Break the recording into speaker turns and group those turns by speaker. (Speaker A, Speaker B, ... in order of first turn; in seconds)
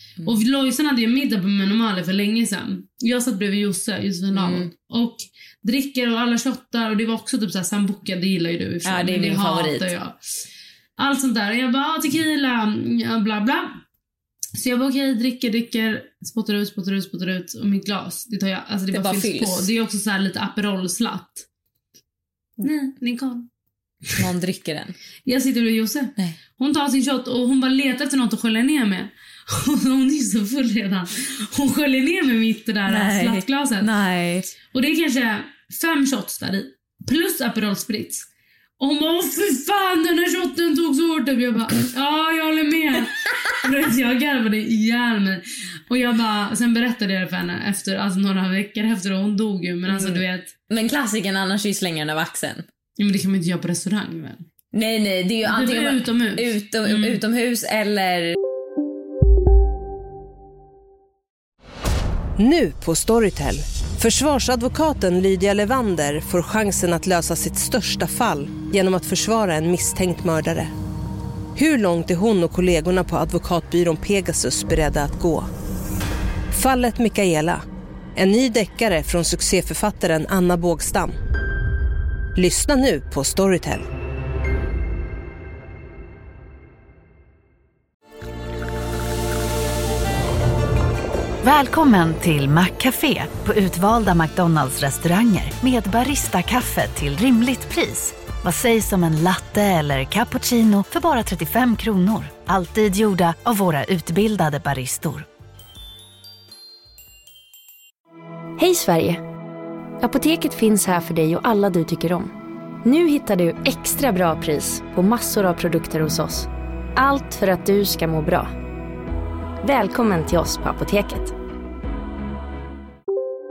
Speaker A: 0.2-10.2, 11.0-13.8, 14.6-21.4, 22.6-23.5, 25.2-33.9, 34.7-38.2, 38.8-50.5, 53.0-54.4, 55.4-57.2
Speaker B: 4.3-4.7, 8.8-9.9, 18.9-19.7, 24.2-24.9, 32.9-34.5, 49.9-52.6, 54.7-58.4
Speaker C: 62.4-70.7, 71.5-75.5, 76.5-77.6, 78.2-81.2, 82.3-83.9
Speaker D: 91.4-105.3
Speaker E: 108.6-109.2, 110.0-112.3, 112.8-118.5, 119.6-121.3